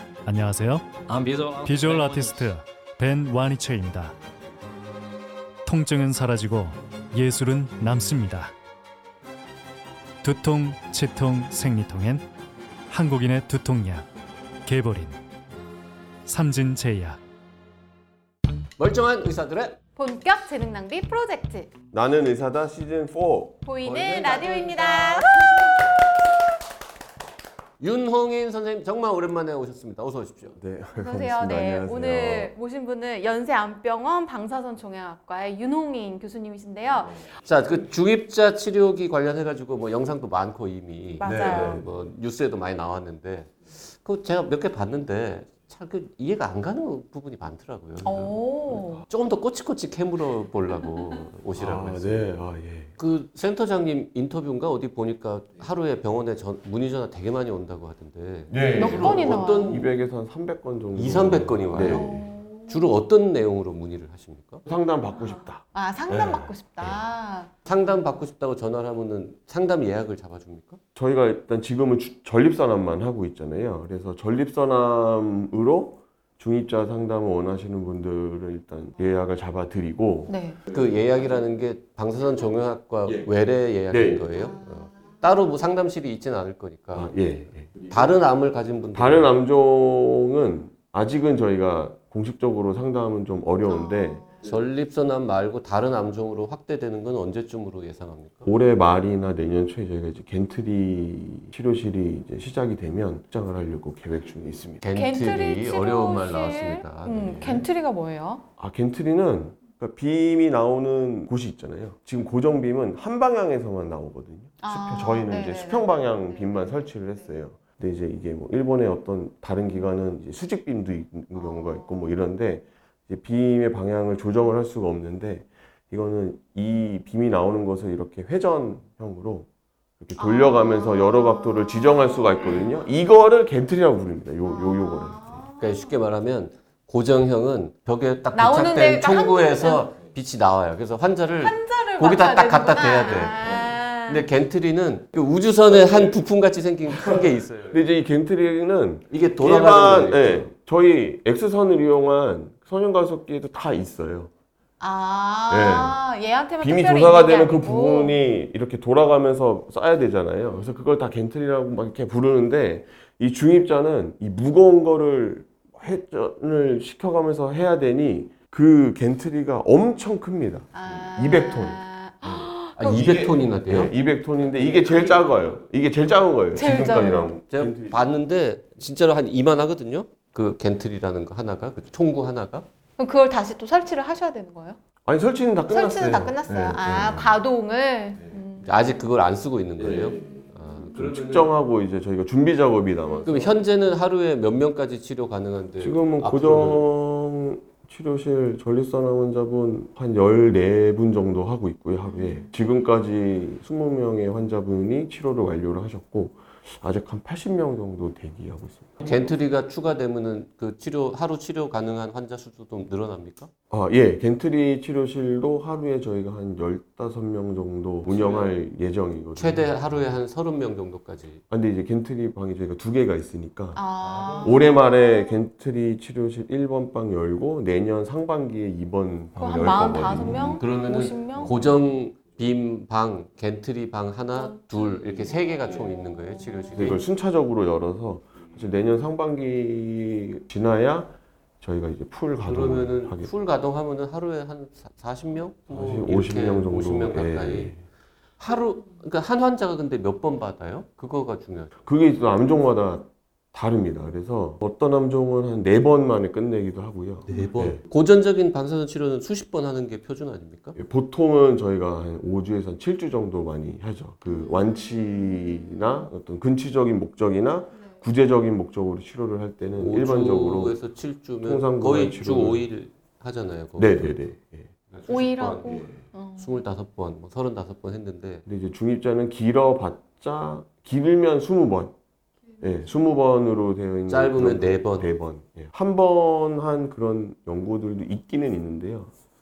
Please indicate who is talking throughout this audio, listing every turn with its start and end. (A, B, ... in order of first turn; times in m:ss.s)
0:00.2-0:01.1 A
0:01.6-0:04.2 A
0:05.7-0:08.5 A
0:10.2-0:12.3 A
0:12.9-0:14.1 A
0:14.7-0:15.2 A
0:16.3-0:17.2 A
0:18.8-0:19.8 B
0:20.0-0:21.7 C
0:21.9-0:23.6 D
0:23.6-0:25.7 C
0:23.8-0:25.7 B
0:27.8-0:30.6 B
0:30.6-0:32.5 D
0:31.0-0:37.2 C
0:37.4-0:48.3 B
0:41.2-0:41.8 C
0:41.2-0:41.8 D
0:48.0-0:49.0 C
0:48.1-0:49.0 D
0:49.1-0:52.3 B
0:51.6-0:52.9 D
0:53.0-0:59.9 B
0:58.5-1:02.2 D
0:58.7-0:59.8 C
1:00.9-1:04.6 B
1:01.8-1:02.8 C
1:04.7-1:07.0 D
1:05.2-1:07.5 C
1:07.6-1:10.8 B
1:11.0-1:20.3 D
1:20.3-1:20.6 C
1:20.7-1:27.2 B
1:23.9-1:24.3 D
1:26.9-1:27.8 D
1:27.8-1:29.3 B
1:28.9-1:34.2 D
1:33.9-1:34.3 C
1:34.4-1:38.5 B
1:38.5-1:44.8 D
1:44.8-1:47.6 B
1:44.9-1:48.4 C
1:48.6-2:09.5 D
1:54.6-1:56.8 C
2:10.0-2:15.4 D
2:10.2-2:12.8 C
2:14.4-2:15.9 C
2:15.6-2:27.8 B
2:18.3-2:19.9 C
2:21.4-2:24.3 C
2:25.8-2:26.1 D
2:27.7-2:34.3 D
2:29.1-2:30.5 B
2:34.8-2:38.2 C
2:35.5-2:36.0 D
2:36.6-2:58.1 D
2:50.7-2:53.1 C
2:52.8-2:53.9 B
2:56.5-2:57.3 C
2:57.5-3:02.7 B
3:03.0-3:04.8 C
3:05.1-3:07.4 D
3:05.7-3:09.0 C
3:08.6-3:11.5 B
3:09.8-3:10.3 D
3:10.9-3:13.5 D
3:13.2-3:16.9 B
3:15.8-3:29.2 D
3:29.0-3:33.5 B
3:33.7-3:40.0 D
3:38.0-3:38.5 B
3:39.4-3:41.4 B
3:41.5-3:43.8 D
3:43.8-3:45.4 C
3:44.0-3:44.5 B
3:44.4-3:50.8 D
3:49.4-3:51.6 C
3:50.5-3:57.0 B
3:56.7-4:03.3 D
4:02.4-4:07.8 B
4:05.7-4:07.8 D
4:08.4-4:11.8 B
4:11.8-4:17.8 D
4:17.3-4:20.8 B
4:20.8-4:30.8 D
4:24.3-4:25.9 C
4:29.8-4:34.2 B
4:31.4-4:32.7 D
4:33.8-4:34.7 D
4:34.9-4:38.4 B
4:35.1-4:36.6 C
4:38.5-4:41.9 D
4:42.6-4:49.1 D
4:44.1-4:45.1 B